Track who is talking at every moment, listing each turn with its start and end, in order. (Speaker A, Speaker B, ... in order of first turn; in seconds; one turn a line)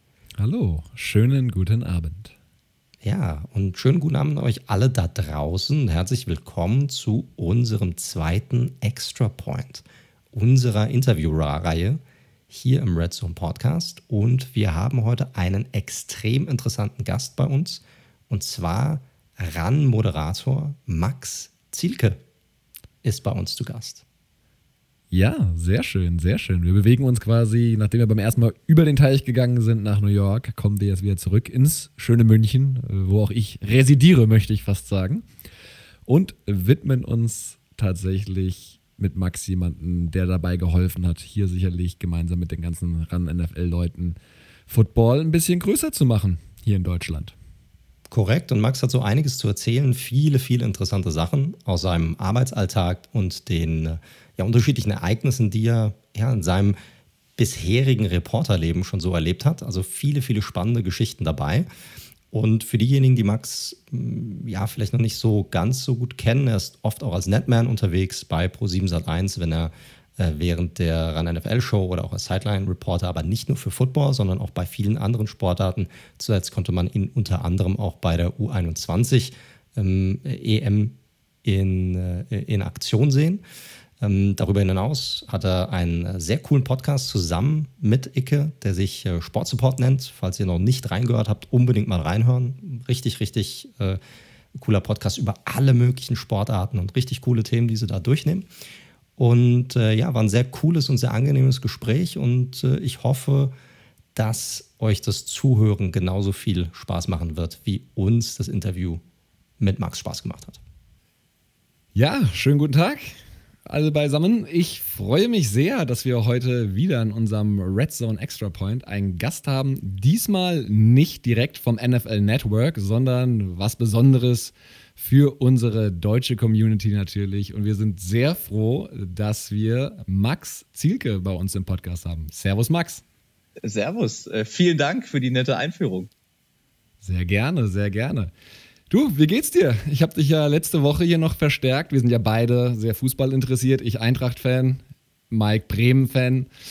Speaker A: 0.4-2.3
Speaker B: 3.0-22.2
Speaker B: 23.0-24.0
Speaker A: 25.1-35.3
Speaker A: 36.1-44.2
Speaker A: 44.7-47.4
Speaker B: 48.1-56.8
Speaker B: 57.4-61.7
Speaker B: 62.3-83.4
Speaker B: 84.0-94.0
Speaker B: 94.5-98.5
Speaker B: 99.2-103.5
Speaker B: 104.2-109.0
Speaker B: 109.6-110.6
Speaker A: 112.0-133.0
Speaker C: 133.6-136.1
Speaker A: 137.0-138.3
Speaker A: 138.9-146.5